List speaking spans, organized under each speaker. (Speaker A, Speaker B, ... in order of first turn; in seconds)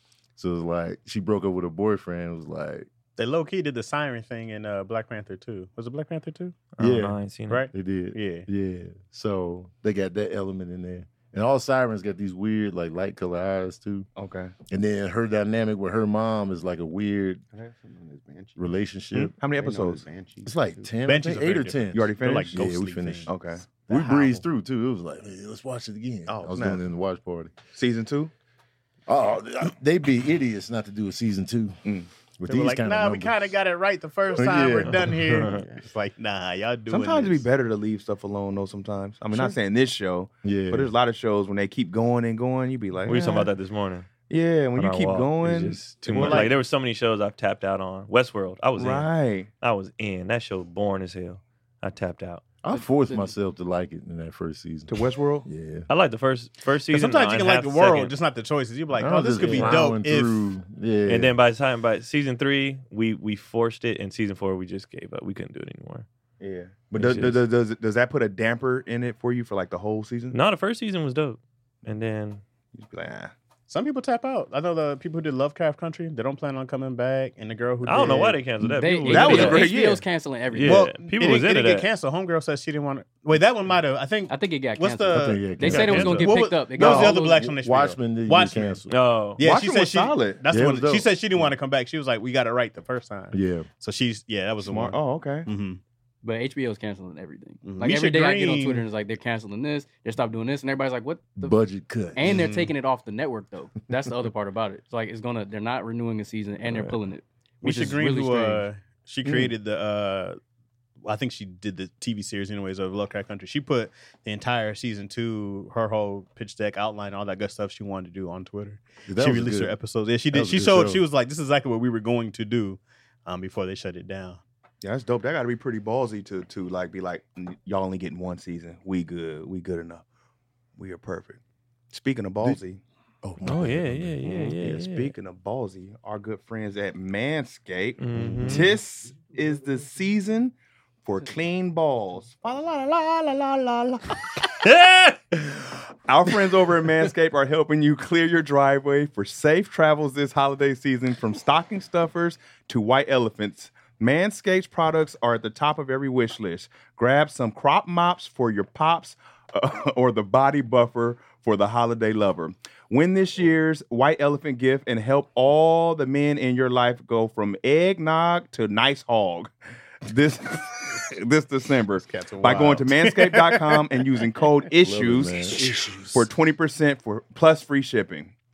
Speaker A: 0.4-2.9, 6.8-7.2, 7.7-14.1, 14.7-17.4, 18.6-19.3, 20.4-27.5, 29.1-31.8, 32.4-33.5, 34.4-35.1, 40.4-40.9, 52.6-55.9, 59.0-61.3, 85.1-88.9, 90.5-91.5, 93.3-93.7, 101.4-102.5, 119.1-119.8, 120.3-121.0, 133.2-134.3, 174.8-176.1
Speaker B: 3.2-6.7, 7.5-8.5, 21.1-24.4, 32.5-37.5, 46.1-46.5, 56.9-60.5, 73.7-78.4, 80.6-88.8, 89.4-95.8, 97.6-98.9, 102.2-102.7, 107.6-110.4, 111.0-124.4, 138.2-138.6, 172.1-173.9, 175.5-176.1
Speaker C: 6.8-7.7, 34.9-35.7, 43.1-44.1, 44.8-52.4, 55.9-58.1, 59.4-59.9, 61.1-66.1, 67.0-67.4, 70.3-72.4, 77.8-79.7, 80.5-81.9, 85.7-86.3, 88.9-89.4, 106.7-107.0, 133.4-135.1, 138.0-138.7, 144.6-145.7
Speaker D: 14.2-14.5, 19.4-20.1, 21.9-22.7, 23.3-23.6, 26.3-26.9, 27.7-28.3, 31.9-32.1, 36.9-43.5, 44.3-46.5, 48.8-49.5, 54.9-55.5, 66.4-70.4, 72.8-73.3, 79.1-80.0, 89.4-90.4, 94.6-95.5, 109.2-109.5, 124.8-130.1, 130.8-131.4, 131.9-132.8, 134.4-144.2, 146.1-169.5, 170.0-175.6, 176.1-178.3
Speaker E: 17.5-18.6, 19.5-20.9, 35.5-35.9
Speaker F: 52.7-53.3, 78.6-80.9, 84.3-87.5, 96.2-101.6, 102.2-108.7